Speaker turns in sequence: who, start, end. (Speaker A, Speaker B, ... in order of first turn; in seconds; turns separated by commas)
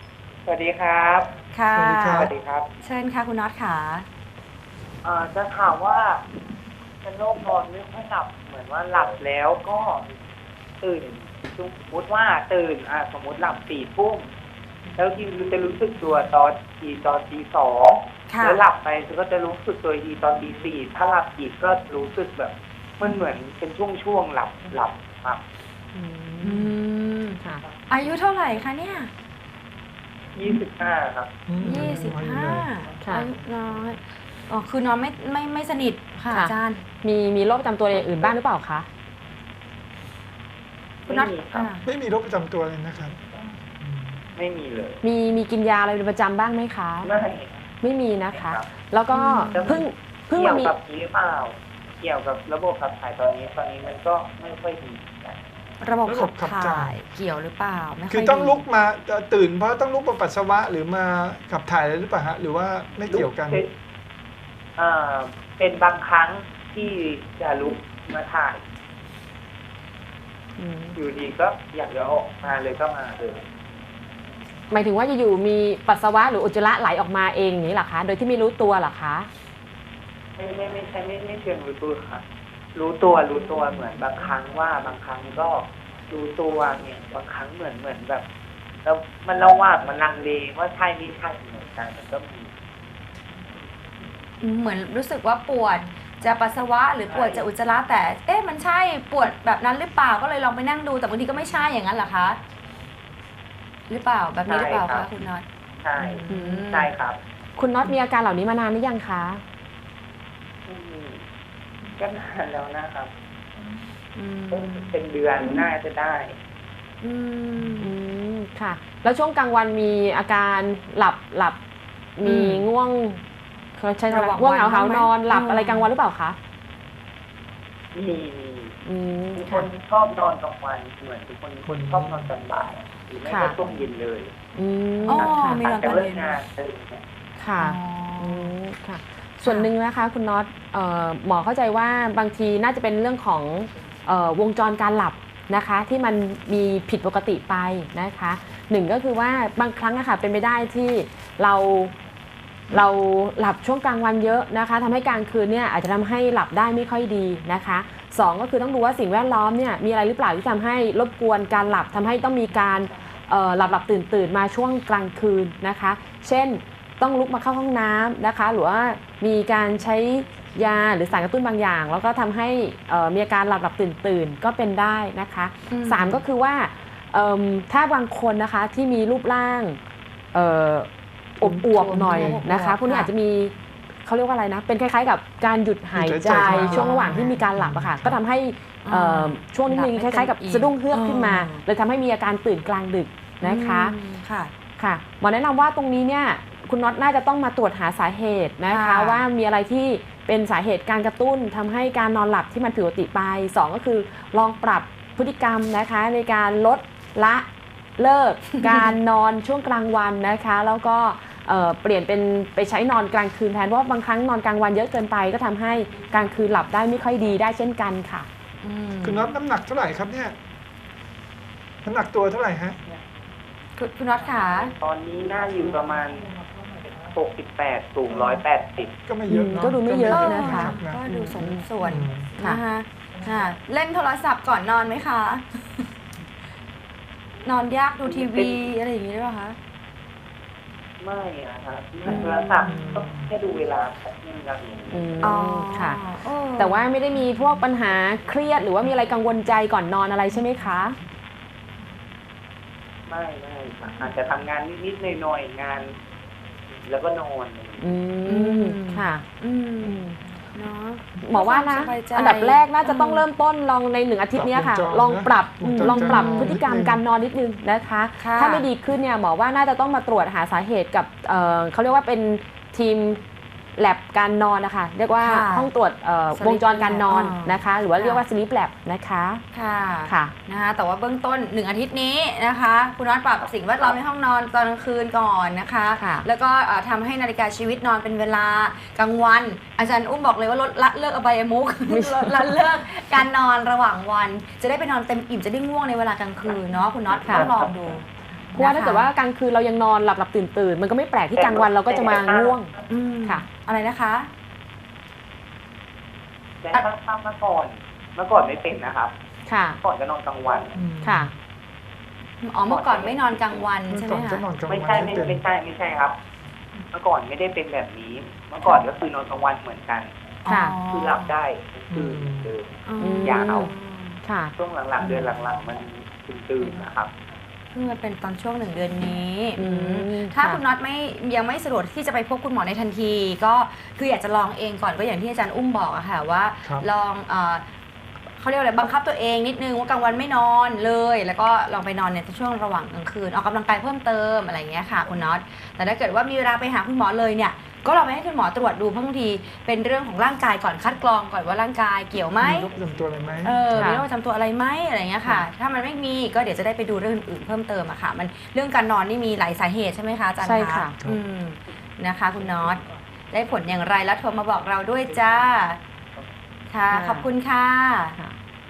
Speaker A: 0.5-1.3, Speaker B: 1.5-2.3, Speaker C: 1.7-2.3, Speaker A: 2.1-2.7, Speaker B: 2.8-4.1, Speaker A: 5.0-6.2, Speaker A: 7.0-10.1, Speaker A: 10.8-14.3, Speaker A: 14.9-25.4, Speaker B: 18.3-18.6, Speaker D: 25.9-26.7, Speaker B: 26.4-29.1, Speaker A: 30.4-31.4, Speaker C: 31.5-32.7, Speaker B: 31.6-36.8, Speaker D: 33.0-33.3, Speaker D: 36.3-38.9, Speaker A: 41.0-41.7, Speaker B: 41.1-41.9, Speaker C: 41.9-44.2, Speaker A: 44.4-45.0, Speaker D: 45.0-47.1, Speaker A: 47.0-47.7, Speaker D: 47.8-50.7, Speaker A: 48.3-48.7, Speaker B: 49.1-49.8, Speaker A: 49.5-55.4, Speaker B: 55.8-58.6, Speaker C: 56.1-57.0, Speaker C: 58.1-63.6, Speaker A: 63.1-63.7, Speaker A: 64.8-68.6, Speaker D: 70.6-71.0, Speaker A: 70.9-73.4, Speaker D: 74.7-79.3, Speaker A: 80.4-82.2, Speaker A: 82.8-88.2, Speaker A: 88.8-92.5, Speaker B: 94.4-102.4, Speaker A: 97.1-97.5, Speaker B: 103.9-105.4, Speaker A: 104.5-105.1, Speaker A: 105.8-107.2, Speaker B: 106.0-106.9, Speaker D: 106.3-106.6, Speaker D: 107.6-109.4, Speaker A: 110.7-111.2, Speaker A: 112.0-113.1, Speaker B: 114.2-114.9, Speaker A: 114.5-116.4, Speaker B: 117.0-117.9, Speaker D: 117.8-121.6, Speaker D: 122.2-123.2, Speaker B: 122.2-122.7, Speaker D: 123.8-126.4, Speaker B: 124.1-125.9, Speaker A: 127.9-128.8, Speaker D: 128.8-129.7, Speaker A: 129.3-134.3, Speaker C: 131.7-132.3, Speaker D: 133.3-133.6, Speaker D: 134.6-135.7, Speaker B: 135.1-136.4, Speaker A: 135.1-137.0, Speaker D: 137.4-151.9, Speaker B: 137.6-138.6, Speaker B: 139.4-139.7, Speaker D: 152.7-179.8, Speaker B: 175.7-176.2, Speaker D: 180.3-183.5, Speaker C: 181.4-182.4, Speaker B: 181.6-183.1, Speaker D: 184.1-193.9, Speaker C: 185.9-188.2, Speaker B: 186.3-187.3, Speaker B: 188.8-191.6, Speaker B: 193.4-194.5, Speaker D: 194.8-207.5, Speaker B: 198.7-199.2, Speaker D: 208.0-218.3, Speaker B: 208.6-208.9, Speaker B: 218.6-219.3, Speaker C: 219.0-220.3, Speaker C: 221.8-222.8, Speaker B: 223.8-224.7, Speaker A: 224.8-226.3, Speaker A: 227.0-228.9, Speaker C: 229.1-231.0, Speaker D: 229.3-231.6, Speaker B: 230.1-235.9, Speaker C: 231.8-232.3, Speaker B: 237.4-239.6, Speaker A: 238.1-238.6, Speaker A: 241.0-245.2, Speaker B: 242.1-242.8, Speaker C: 242.7-243.3, Speaker D: 244.9-246.0, Speaker B: 245.2-247.2, Speaker D: 246.6-251.0, Speaker A: 253.1-256.0, Speaker A: 256.8-257.9, Speaker D: 257.8-259.2, Speaker B: 258.3-263.3, Speaker D: 259.8-260.2, Speaker D: 261.2-273.2, Speaker C: 264.3-267.0, Speaker B: 265.8-266.6, Speaker B: 268.2-268.7, Speaker D: 273.8-279.4, Speaker B: 275.2-275.7, Speaker B: 276.3-278.2, Speaker B: 279.5-299.1, Speaker D: 280.1-280.3, Speaker D: 286.0-286.3, Speaker D: 291.9-292.6, Speaker D: 297.3-297.5, Speaker D: 298.6-302.7, Speaker A: 301.3-302.6, Speaker B: 302.9-304.3, Speaker A: 306.6-309.1, Speaker D: 309.5-309.8, Speaker A: 309.8-310.8, Speaker C: 310.7-311.3, Speaker D: 311.0-311.3, Speaker B: 312.4-314.5, Speaker A: 312.7-313.7, Speaker C: 313.9-315.4, Speaker A: 314.7-316.2, Speaker A: 316.9-320.1, Speaker B: 320.4-321.3, Speaker D: 320.5-320.8, Speaker A: 320.8-323.7, Speaker C: 321.9-322.5, Speaker B: 322.9-324.2, Speaker D: 323.0-323.7, Speaker D: 324.2-324.5, Speaker A: 324.6-327.1, Speaker B: 327.7-337.6, Speaker D: 329.6-330.6, Speaker B: 338.4-352.7, Speaker C: 352.4-353.9, Speaker B: 353.4-365.8, Speaker D: 353.7-354.0, Speaker D: 360.4-360.9, Speaker B: 366.7-368.2, Speaker D: 366.9-367.3